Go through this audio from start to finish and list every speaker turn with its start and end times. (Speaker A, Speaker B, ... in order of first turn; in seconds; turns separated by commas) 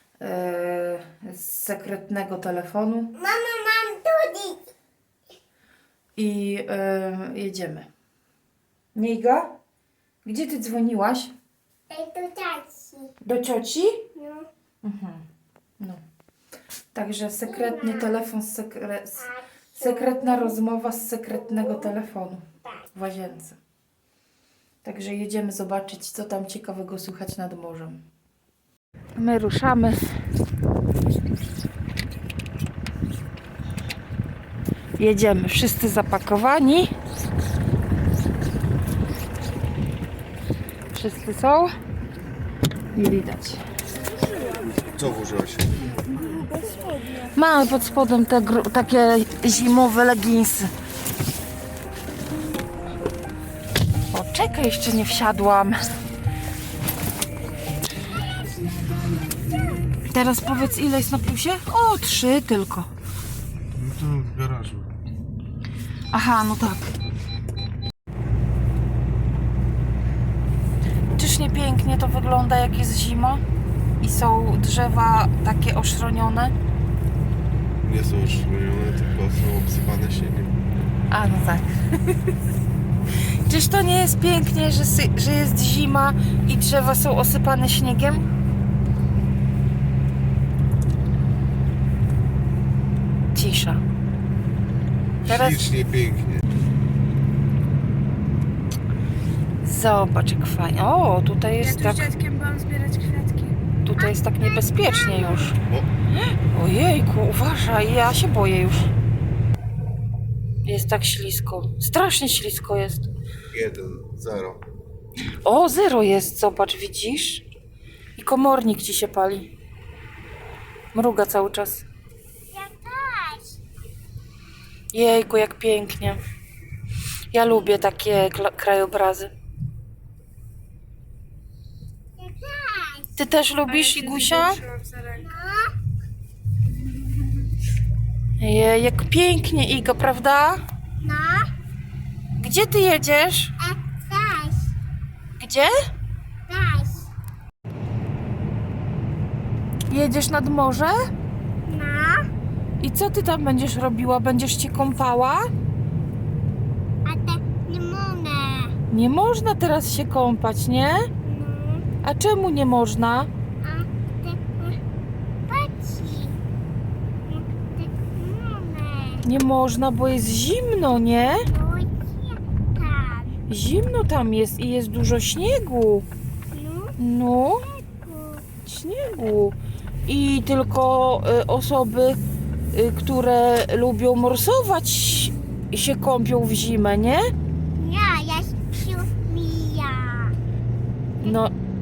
Speaker A: 0.2-3.1, Speaker B: 3.2-4.7, Speaker A: 6.2-7.9, Speaker A: 8.9-9.5, Speaker A: 10.2-11.3, Speaker B: 11.9-13.1, Speaker A: 13.2-14.0, Speaker B: 14.2-14.5, Speaker A: 14.8-15.2, Speaker A: 16.9-23.6, Speaker B: 17.5-18.1, Speaker B: 19.2-20.6, Speaker B: 21.6-21.9, Speaker A: 24.8-28.0, Speaker A: 29.2-30.0, Speaker A: 35.0-36.9, Speaker A: 40.9-41.7, Speaker A: 42.9-43.6, Speaker C: 44.1-44.9, Speaker D: 44.9-45.8, Speaker C: 46.1-47.4, Speaker A: 47.3-50.7, Speaker A: 54.1-55.8, Speaker A: 60.0-62.9, Speaker D: 63.8-64.9, Speaker A: 66.1-66.9, Speaker A: 71.1-73.4, Speaker A: 74.0-76.5, Speaker D: 77.8-80.6, Speaker A: 81.1-81.7, Speaker A: 83.5-88.3, Speaker A: 93.3-93.8, Speaker D: 95.2-96.4, Speaker A: 95.2-95.7, Speaker A: 99.6-102.1, Speaker C: 101.6-103.6, Speaker A: 103.8-105.6, Speaker B: 104.5-105.2, Speaker A: 106.5-108.9, Speaker A: 110.6-113.1, Speaker D: 113.5-114.6, Speaker A: 115.4-117.5, Speaker A: 118.2-119.5, Speaker A: 120.9-121.8, Speaker B: 122.5-123.6, Speaker A: 124.9-126.2, Speaker A: 127.3-129.3, Speaker B: 132.2-133.1, Speaker A: 133.2-134.6, Speaker C: 133.7-135.3, Speaker B: 135.2-135.7, Speaker A: 138.4-140.6, Speaker B: 141.0-141.5, Speaker A: 142.4-143.5, Speaker B: 143.6-144.7, Speaker A: 145.4-145.7, Speaker B: 146.5-147.1, Speaker A: 149.9-151.0, Speaker B: 151.7-152.3, Speaker A: 152.8-155.5, Speaker B: 157.1-158.8, Speaker A: 158.9-161.1, Speaker B: 161.2-161.9, Speaker A: 162.0-163.3, Speaker B: 163.6-164.8, Speaker B: 165.5-166.4, Speaker B: 167.2-169.2, Speaker A: 169.2-171.5, Speaker B: 171.5-173.4, Speaker A: 173.5-176.1, Speaker B: 176.5-177.0, Speaker A: 177.0-177.7, Speaker B: 177.9-178.4, Speaker A: 178.6-179.6, Speaker A: 180.1-182.2, Speaker A: 182.7-187.3, Speaker B: 187.8-190.3, Speaker A: 191.2-191.5